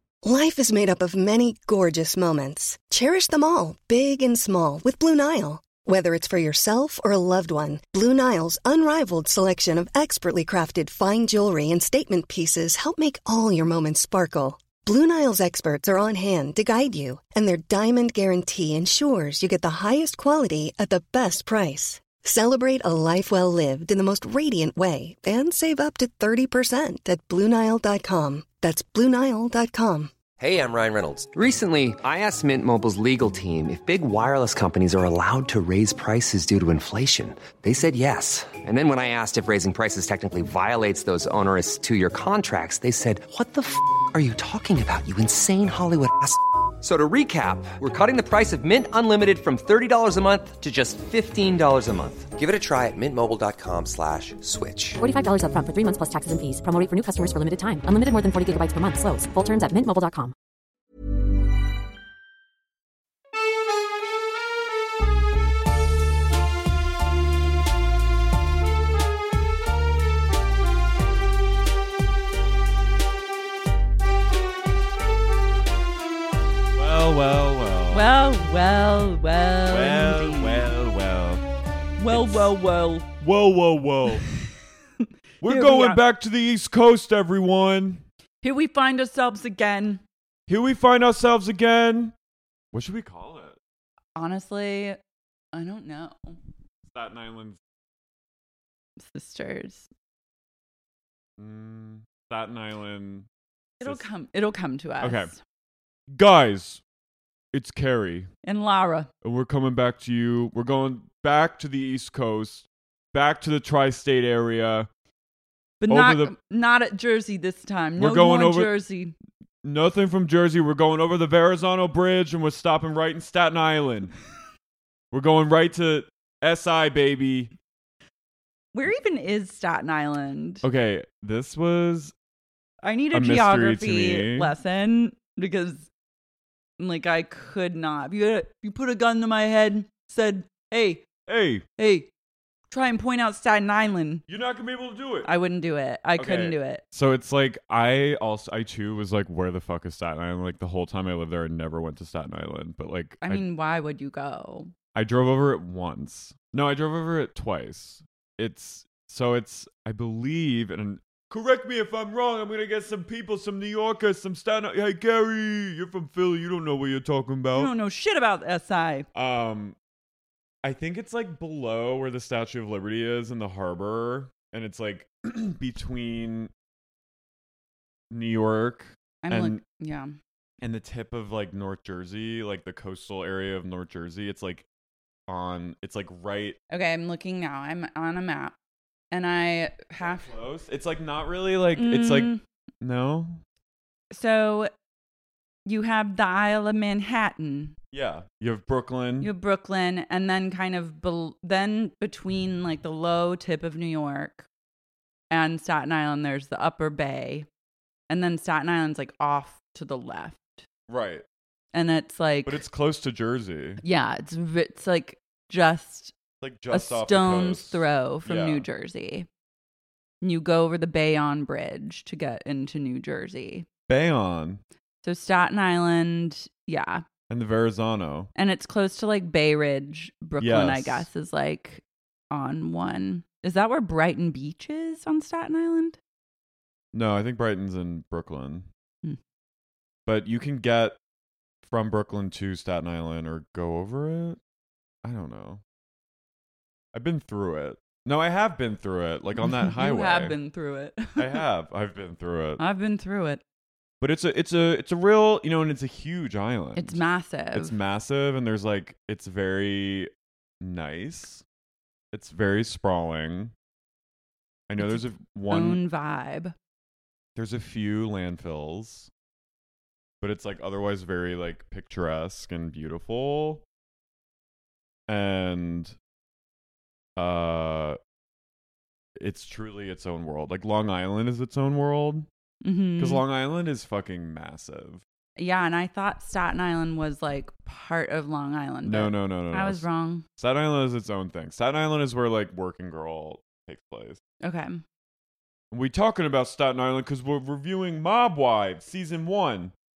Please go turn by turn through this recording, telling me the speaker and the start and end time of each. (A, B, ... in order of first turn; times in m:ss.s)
0:00.2-0:30.1 A
0:30.4-0:55.0 B
0:55.0-1:00.3 C
1:16.8-1:18.1 D
1:17.9-1:20.7 E
1:19.7-1:21.4 D
1:22.0-1:23.1 E
1:22.1-1:22.5 D
1:23.2-1:24.2 D
1:25.4-1:26.0 E
1:25.4-1:28.0 D
1:28.4-1:30.0 E
1:30.5-1:32.1 D
1:32.7-1:33.6 D
1:34.2-1:35.0 E
1:35.5-1:36.4 E
1:36.9-1:37.6 D
1:39.0-1:39.9 E
1:41.4-1:43.3 D
1:43.8-1:45.4 E
1:43.8-1:44.1 D
1:45.0-1:45.3 D
1:46.1-1:46.8 D
1:47.5-1:48.3 D
1:48.4-1:49.1 E
1:49.2-1:54.9 D
1:55.8-1:59.1 E
1:55.9-1:56.3 D
1:58.0-1:58.7 D
1:59.6-2:04.2 D
2:05.1-2:07.5 D
2:08.7-2:10.6 E
2:10.6-2:12.1 D
2:12.8-2:15.9 E
2:13.1-2:14.5 D
2:16.8-2:21.0 E
2:21.3-2:21.6 D
2:21.8-2:22.1 E
2:22.7-2:24.2 E
2:24.3-2:25.3 D
2:25.2-2:26.8 E
2:26.2-2:33.4 D
2:33.2-2:34.7 E
2:34.9-2:47.7 D
2:47.5-2:49.1 E
2:49.2-2:49.8 D
2:50.6-2:56.5 D
2:58.1-2:59.6 D
2:59.2-3:00.1 E
3:00.6-3:04.6 D
3:05.3-3:06.6 D
3:06.7-3:08.5 E
3:09.1-3:10.2 E
3:10.0-3:13.4 D
3:11.8-3:12.4 E
3:14.1-3:14.7 E
3:15.7-3:17.8 E
3:17.9-3:19.3 D
3:19.2-3:24.5 E
3:25.3-3:27.5 E
3:28.1-3:30.7 E
3:30.9-3:31.2 D
3:31.7-3:32.6 E
3:32.4-3:33.8 D
3:33.8-3:36.1 E
3:36.4-3:38.6 D
3:36.7-3:39.3 E
3:40.2-3:43.7 E
3:43.9-3:44.6 D
3:45.0-3:47.0 E
3:47.3-3:48.3 D
3:48.3-3:56.0 E
3:50.4-3:51.1 D
3:56.9-3:58.7 D
4:00.1-4:01.0 D
4:01.6-4:04.4 D
4:05.0-4:05.6 D
4:06.9-4:10.3 D
4:09.4-4:11.4 E
4:11.2-4:12.6 D
4:12.6-4:13.4 E
4:14.0-4:17.0 D
4:16.8-4:17.8 E
4:17.6-4:20.1 D
4:20.6-4:21.4 D
4:22.1-4:23.5 D
4:24.7-4:25.8 D
4:24.8-4:26.6 E
4:27.4-4:29.1 D
4:30.2-4:33.6 D
4:35.1-4:35.9 D
4:37.2-4:38.0 D
4:39.2-4:42.3 D
4:42.6-4:43.2 E
4:43.0-4:45.0 D
4:45.4-4:50.2 E
4:48.8-4:49.8 D
4:50.4-4:54.2 D
4:54.4-4:54.8 E
4:55.7-4:59.7 D